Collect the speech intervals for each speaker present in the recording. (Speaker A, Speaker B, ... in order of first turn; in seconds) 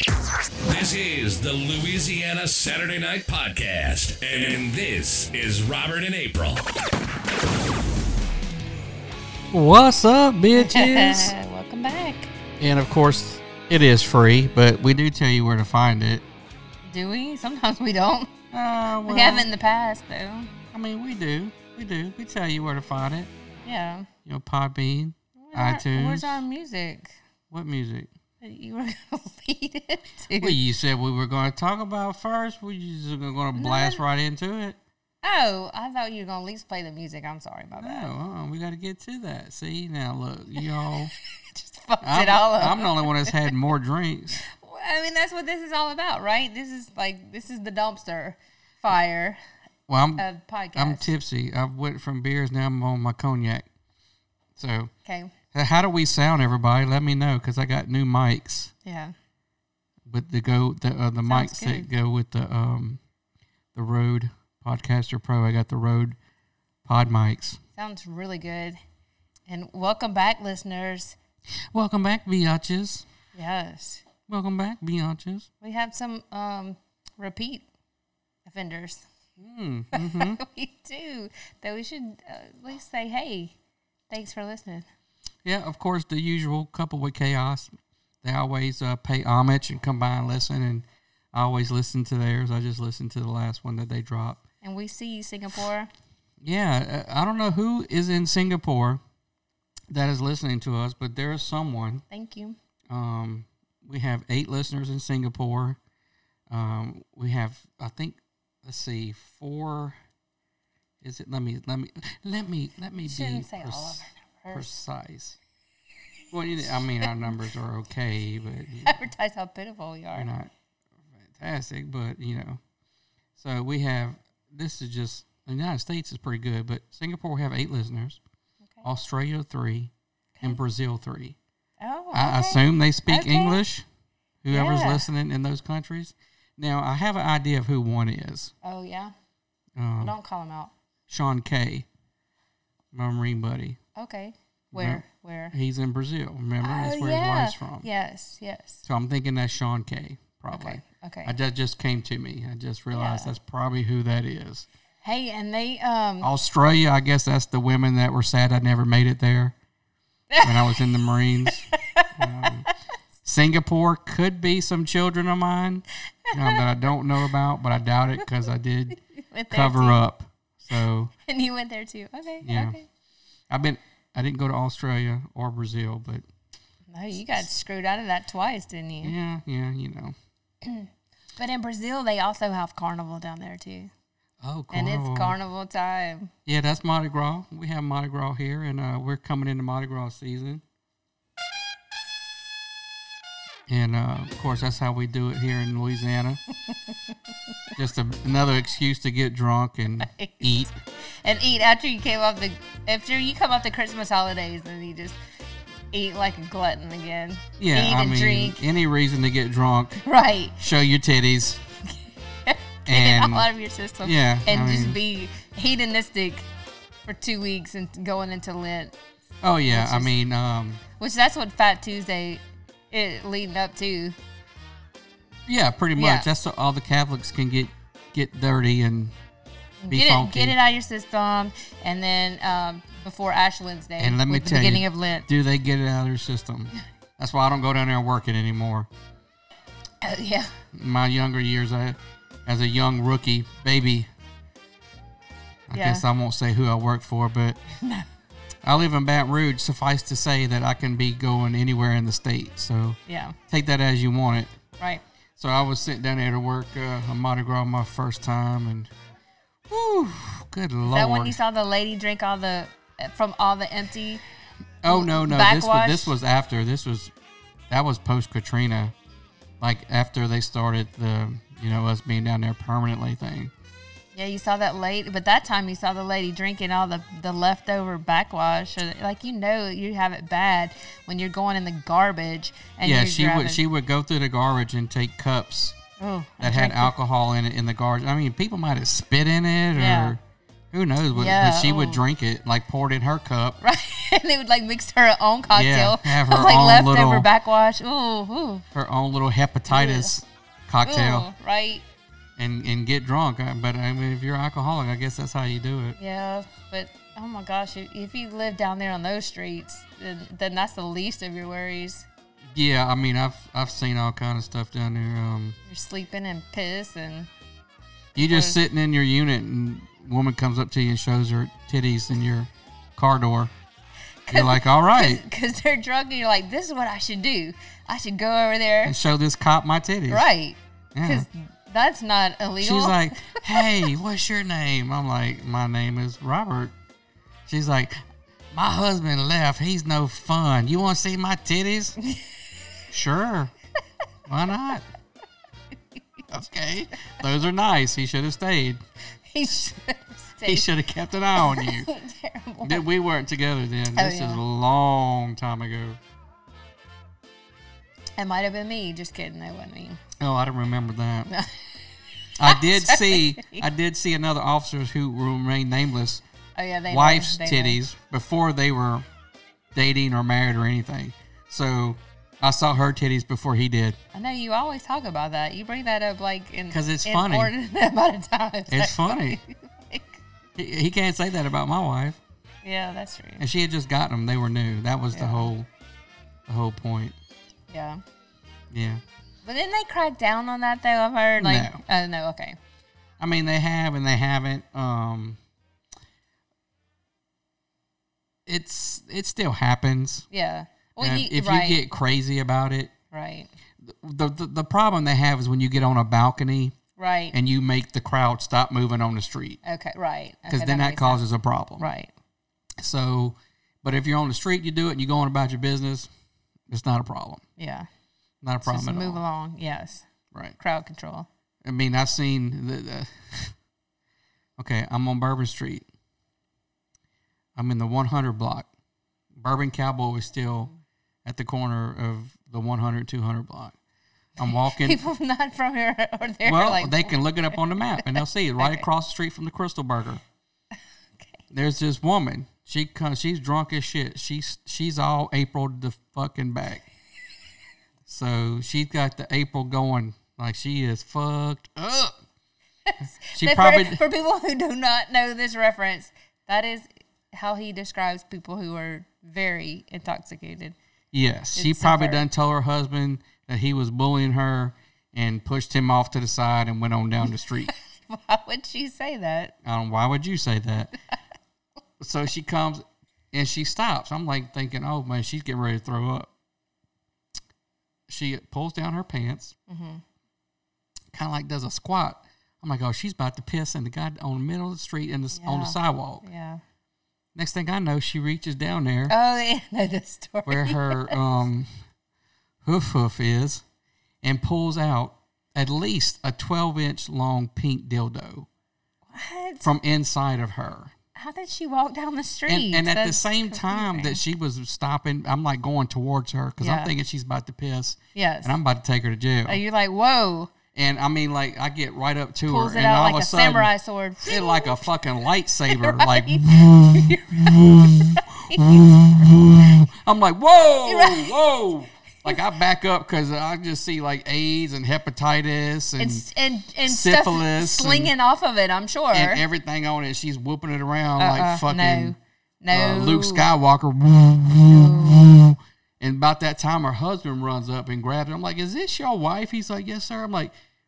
Speaker A: 0.6-6.6
Speaker B: 9.5-11.3, 12.6-16.2, 18.5-19.5, 20.7-23.3, 24.3-26.4, 27.5-28.1, 30.4-34.8, 37.8-41.1, 42.0-44.4, 49.9-53.7, 54.6-54.9, 55.5-58.7, 60.1-63.0, 63.8-66.2, 66.8-67.6, 71.7-73.1, 74.3-75.5, 79.4-80.4, 85.5-94.5, 96.4-99.0, 99.9-102.0, 102.9-105.8, 106.5-110.0, 111.0-115.4, 116.3-119.0, 120.2-120.5, 121.3-122.6, 123.4-128.2, 128.8-131.4, 132.1-133.8, 134.4-138.5, 139.8-140.2, 141.1-141.9, 142.9-143.8, 144.7-147.9, 148.9-154.7, 156.2-159.5, 160.4-162.7, 163.2-169.0, 169.5-171.1, 172.4-172.8, 173.5-176.2, 179.0-180.2, 184.4-185.4, 186.5-190.6, 193.7-196.4, 197.8-200.7, 207.6-210.0, 210.6-211.6, 212.9-213.5, 214.0-215.0, 219.4-220.8, 225.5-229.1, 229.9-230.6, 234.0-238.9, 240.7-244.1, 245.7-247.6, 248.6-253.0, 253.5-254.5, 255.4-258.9, 259.7-261.4, 264.8-267.1, 267.7-268.9, 269.6-273.5, 282.8-285.8, 286.4-290.2, 290.7-293.6, 295.5-297.3, 298.7-301.3, 302.4-306.0, 312.5-315.6, 318.2-323.5, 324.3-325.2, 328.9-330.3, 330.9-331.3, 332.6-336.7, 337.5-338.0, 338.5-342.0, 342.9-343.5, 344.3-344.9, 346.3-348.8, 350.4-351.9, 352.6-356.0, 360.2-361.3, 362.4-366.2, 366.9-369.1, 369.8-374.0, 376.7-377.5, 378.7-379.4, 380.6-382.2, 383.4-385.7, 386.5-387.1, 388.7-389.0, 391.4-391.8, 393.2-395.4, 398.5-400.3, 401.0-402.9, 403.8-406.8, 407.3-409.6, 410.5-411.8, 412.8-416.1, 416.7-417.4, 418.4-419.2, 421.6-423.5, 424.6-425.9, 427.6-428.7, 429.4-430.7, 431.2-433.8, 434.4-435.0, 436.4-440.2, 441.5-446.9, 448.1-452.2, 453.4-454.0, 461.1-467.7, 469.6-470.9, 472.0-476.3, 478.1-479.6, 481.1-486.2, 487.4-489.1, 490.5-491.7, 492.6-493.6, 494.2-498.5, 499.6-500.9, 502.5-509.6, 510.7-513.7, 514.2-526.2, 526.9-528.1, 529.1-532.2, 532.7-540.5
Speaker C: 10.6-12.3, 16.9-18.3, 19.1-20.5, 23.6-24.1, 25.4-27.1, 28.4-30.6, 33.5-34.0, 35.2-38.1, 41.5-43.5, 44.4-49.4, 50.2-51.1, 55.0-55.3, 58.9-59.1, 61.3-61.9, 67.8-68.8, 69.5-71.2, 73.3-74.0, 75.6-77.7, 78.5-79.0, 79.9-83.5, 84.1-84.8, 94.6-95.9, 102.1-102.6, 113.0-114.8, 117.0-117.4, 118.8-120.3, 131.8-133.6, 134.5-135.1, 138.6-139.1, 140.0-140.7, 144.0-145.6, 146.6-148.9, 150.5-151.3, 152.9-153.3, 155.0-156.3, 160.3-160.9, 161.4-162.5, 166.3-166.7, 169.1-170.0, 171.3-172.9, 176.9-179.2, 180.6-183.9, 184.7-186.3, 200.0-200.7, 201.2-205.2, 205.9-208.6, 210.1-210.6, 212.5-216.5, 217.1-219.0, 219.7-220.1, 221.0-222.4, 222.9-224.2, 226.0-226.3, 229.8-235.3, 240.0-240.5, 245.7-246.1, 247.8-248.1, 253.1-253.4, 260.9-264.2, 264.9-266.1, 274.1-283.6, 286.0-286.9, 289.7-290.2, 291.1-292.0, 293.6-298.6, 299.7-300.1, 300.9-301.8, 306.0-312.1, 315.7-317.3, 318.1-318.6, 324.3-329.0, 330.1-333.6, 349.3-350.7, 351.4-352.9, 353.9-354.4, 358.2-360.0, 361.3-361.5, 362.4-363.6, 366.6-367.8, 374.1-380.2, 382.6-383.4, 385.1-385.5, 387.7-388.0, 389.4-392.6, 400.3-401.8, 403.1-403.5, 407.0-407.4, 409.6-411.3, 411.8-412.1, 417.6-417.9, 418.6-420.1, 420.6-421.3, 434.4-438.9, 452.9-460.8, 461.6-462.2, 467.7-469.5, 479.7-480.0, 485.3-486.6, 489.1-491.2, 499.1-499.7, 501.2-504.2, 506.6-506.9, 508.1-508.6, 509.5-510.5, 512.5-514.9, 515.7-519.7, 520.9-521.4, 526.0-529.4, 531.2-533.5, 534.7-535.4